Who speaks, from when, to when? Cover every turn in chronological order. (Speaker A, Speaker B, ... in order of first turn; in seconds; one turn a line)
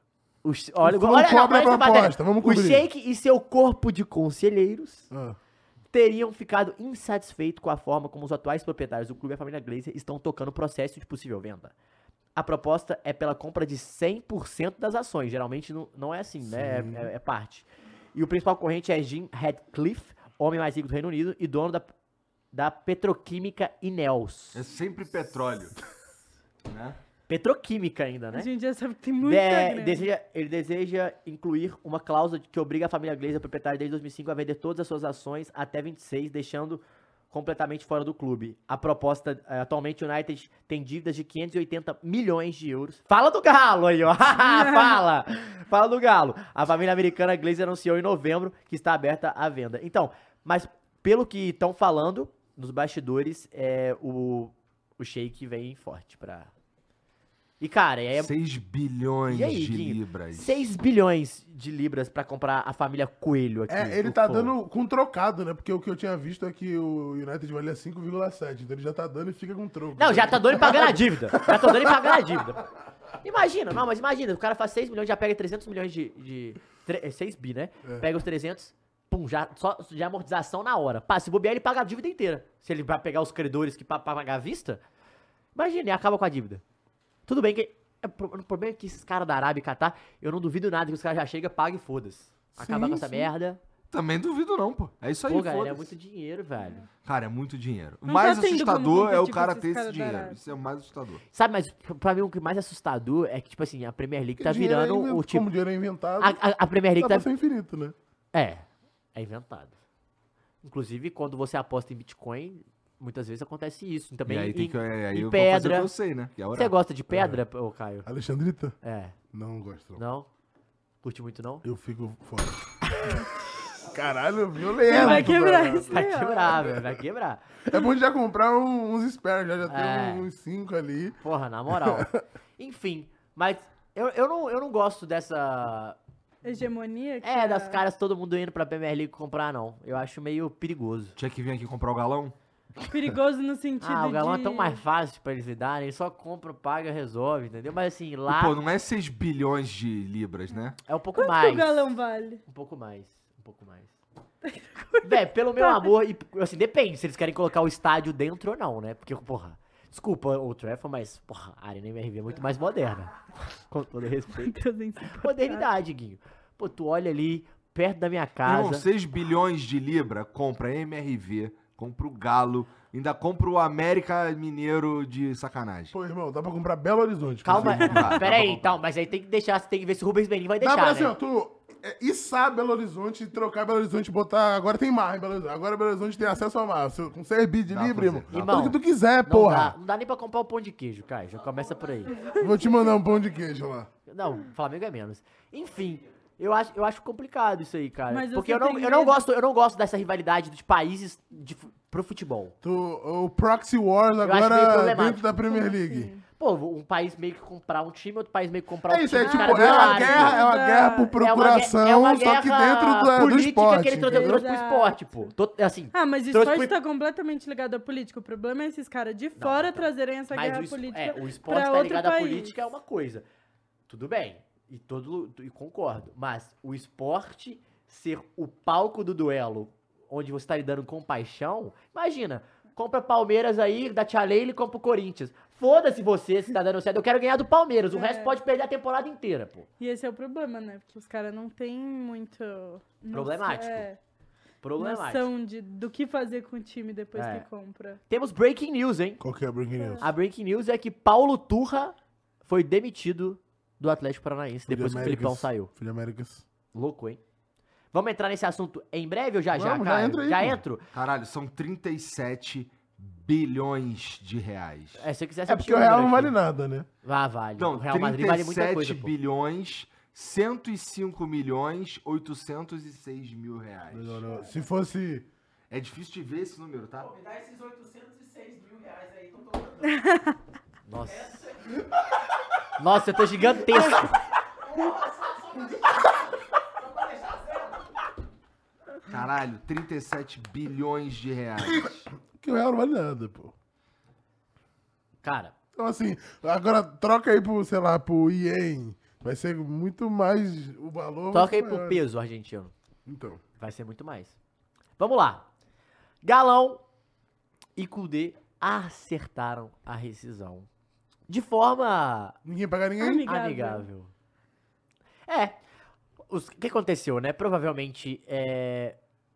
Speaker A: 0.4-5.1
Speaker B: 0.8-2.9
Speaker B: 5.1-5.4
Speaker A: 5.9-11.7
Speaker A: 12.3-21.9
Speaker B: 16.4-17.1
Speaker A: 22.5-24.6
Speaker C: 24.5-25.8
Speaker C: 26.7-27.0
Speaker A: 27.3-28.5
Speaker D: 28.3-30.1
Speaker A: 29.2-56.5
Speaker A: 57.6-58.3
Speaker C: 58.2-60.6
Speaker A: 59.3-64.5
Speaker B: 63.7-72.4
Speaker A: 70.0-72.7
Speaker A: 73.2-84.8
Speaker A: 85.5-86.6
Speaker A: 87.3-93.6
Speaker B: 92.6-93.2
Speaker C: 93.9-95.9
Speaker A: 95.3-96.9
Speaker C: 97.0-101.2
Speaker D: 98.1-100.4
Speaker A: 101.3-105.5
Speaker B: 104.4-106.4
Speaker A: 106.2-107.3
Speaker B: 107.0-108.0
Speaker A: 108.3-109.8
Speaker A: 110.6-115.9
Speaker C: 114.3-116.7
Speaker A: 116.5-118.1
Speaker B: 117.1-117.4
Speaker B: 118.0-118.8
Speaker A: 118.8-119.2
Speaker B: 119.3-120.0
Speaker A: 120.0-120.3
Speaker A: 121.0-121.7
Speaker B: 121.6-122.7
Speaker B: 123.8-127.0
Speaker D: 124.9-126.7
Speaker A: 124.9-125.3
Speaker A: 125.9-127.4
Speaker B: 127.7-132.2
Speaker A: 129.7-130.3
Speaker A: 131.2-136.0
Speaker D: 136.4-137.8
Speaker A: 137.2-141.2
Speaker C: 141.2-142.4
Speaker D: 142.9-144.8
Speaker A: 143.8-148.6
Speaker C: 148.3-150.8
Speaker A: 150.9-151.8
Speaker D: 151.2-152.4
Speaker A: 152.5-154.0
Speaker D: 154.4-155.9
Speaker A: 155.0-168.9
Speaker D: 164.3-165.7
Speaker C: 168.4-175.9
Speaker B: 175.9-178.2
Speaker A: 177.4-181.2
Speaker C: 177.5-178.7
Speaker B: 180.6-189.8
Speaker C: 187.7-188.6
Speaker A: 188.3-192.2
Speaker D: 192.3-192.7
Speaker B: 192.4-193.9
Speaker A: 194.1-202.5
Speaker D: 198.1-199.2
Speaker B: 202.6-206.1
Speaker A: 204.2-205.3
Speaker D: 205.5-206.2
Speaker A: 206.4-210.4
Speaker B: 208.9-214.4
Speaker D: 209.2-211.2
Speaker A: 211.2-216.7
Speaker D: 214.1-215.3
Speaker D: 215.9-222.6
Speaker A: 219.4-223.2
Speaker A: 223.9-239.7
Speaker D: 237.9-238.4
Speaker D: 239.8-244.0
Speaker A: 243.1-243.9
Speaker A: 244.6-245.3
Speaker D: 244.8-248.0
Speaker A: 247.2-247.5
Speaker A: 248.1-249.2
Speaker B: 249.2-250.1
Speaker D: 249.8-250.0
Speaker A: 250.0-255.7
Speaker B: 254.7-256.4
Speaker A: 256.7-257.2
Speaker A: 257.9-260.8
Speaker B: 259.5-260.6
Speaker C: 260.9-265.1
Speaker A: 265.0-266.4
Speaker B: 265.5-266.9
Speaker A: 267.0-269.1
Speaker C: 267.6-274.3
Speaker B: 273.9-275.3
Speaker C: 275.7-277.1
Speaker E: 277.2-279.8
Speaker D: 279.9-280.4
Speaker A: 280.9-281.5
Speaker A: 282.8-284.2
Speaker D: 283.7-284.0
Speaker E: 284.9-285.7
Speaker C: 289.1-292.1
Speaker B: 291.6-293.5
Speaker A: 295.2-295.5
Speaker B: 295.8-302.0
Speaker A: 301.3-302.7
Speaker B: 303.1-303.4
Speaker A: 303.6-304.4
Speaker A: 305.0-305.5
Speaker A: 306.2-306.8
Speaker A: 307.8-310.7
Speaker A: 311.3-312.4
Speaker B: 312.4-313.3
Speaker D: 313.0-313.9
Speaker A: 313.2-314.1
Speaker A: 315.3-315.6
Speaker A: 316.3-319.0